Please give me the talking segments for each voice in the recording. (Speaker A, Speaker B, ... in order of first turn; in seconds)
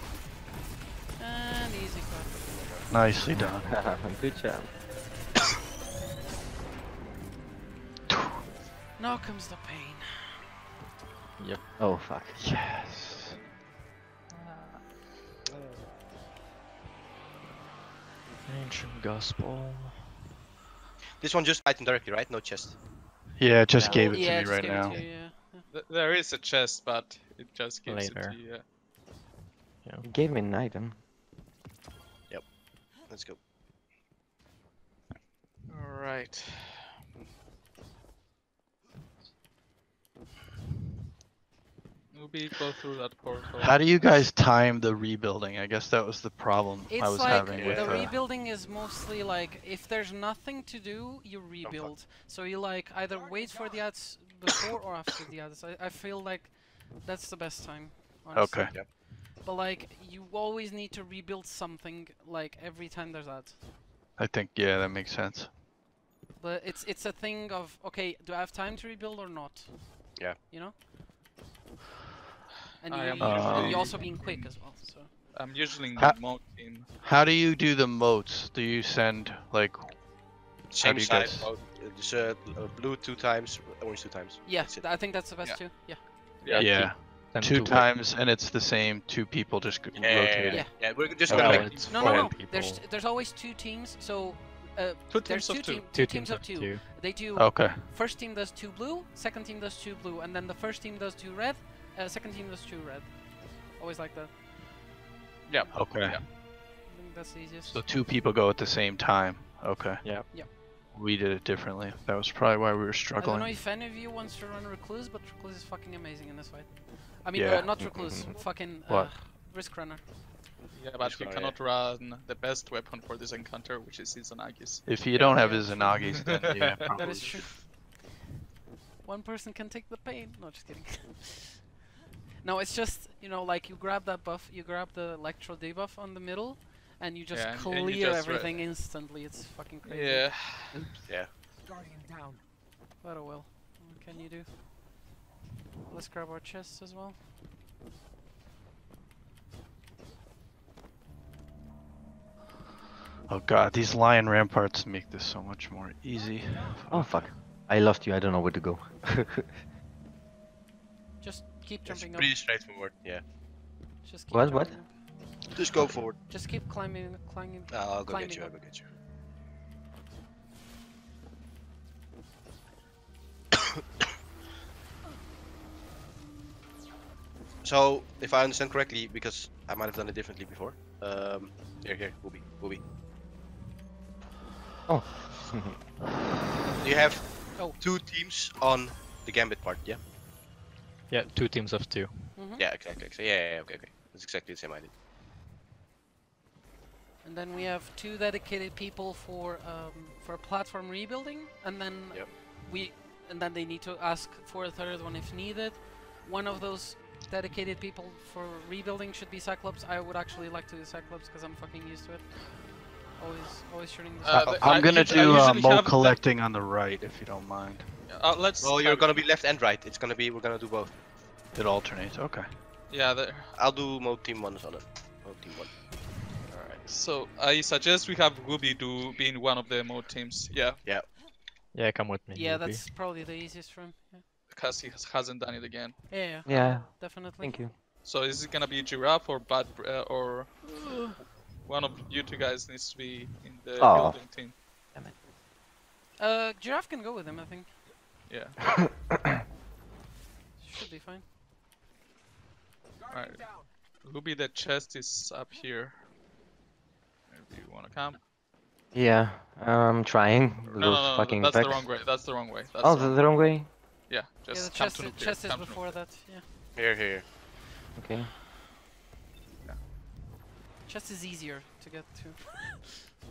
Speaker A: 1.2-2.4, 9.0-10.4, 23.9-25.7, 46.9-63.6, 66.4-70.8, 72.8-75.1, 84.5-86.6, 91.8-104.4, 106.8-107.8, 113.2-120.0, 125.3-127.6, 129.0-131.6, 132.4-140.6, 143.0-144.5, 145.9-147.2, 161.2-162.3, 164.0-164.9, 166.2-168.7, 192.3-192.6, 197.2-214.6, 232.3-234.2, 236.1-237.6, 240.7-241.2, 246.2-247.7, 250.6-251.2, 264.5-266.4, 270.9-272.9
Speaker B: 2.6-2.9, 15.5-15.9, 21.2-22.8, 23.8-24.1, 32.3-33.4, 47.3-48.1, 51.6-51.9, 80.7-84.9, 90.0-92.3, 121.0-121.6, 141.1-141.3, 161.9-163.2, 165.5-166.2, 167.7-168.9, 177.6-182.8, 186.8-190.0, 192.6-194.9, 214.4-215.2, 218.6-221.0, 223.6-225.8, 230.8-231.1, 266.8-267.2
Speaker C: 2.9-3.7, 8.1-8.4, 12.4-13.4, 23.4-25.0, 43.6-48.1, 58.3-58.7, 64.2-65.5, 73.2-74.0, 76.0-80.1, 80.8-81.5, 86.5-92.3, 97.2-97.9, 105.7-106.2, 107.7-113.6, 117.3-117.8, 118.8-119.2, 124.8-127.3, 153.3-157.4, 214.5-218.2, 221.5-222.6
Speaker D: 3.6-4.8, 11.8-12.4, 30.0-31.0, 117.8-118.4, 156.9-159.6, 164.3-165.1, 165.8-166.1, 184.9-185.8, 236.5-237.8, 243.8-245.1, 258.9-263.7, 267.9-268.3
Speaker E: 11.4-12.0, 18.4-20.1, 24.7-25.1, 27.9-28.4, 86.5-88.0, 91.3-92.8, 95.9-97.1, 110.0-110.4, 126.4-127.5, 191.1-192.4, 231.7-232.9
Speaker F: 14.3-14.8, 25.7-28.6, 35.7-37.0, 42.1-44.2, 72.9-76.9, 85.4-86.9, 91.3-91.7, 95.1-95.9, 105.5-106.2, 120.7-127.2, 137.3-138.8, 139.8-140.9, 214.2-216.2, 218.1-219.2, 222.9-223.5, 226.5-230.8, 234.5-236.6, 238.0-240.7, 241.6-244.5, 248.3-248.8, 253.1-256.1, 257.3-258.2, 260.7-266.0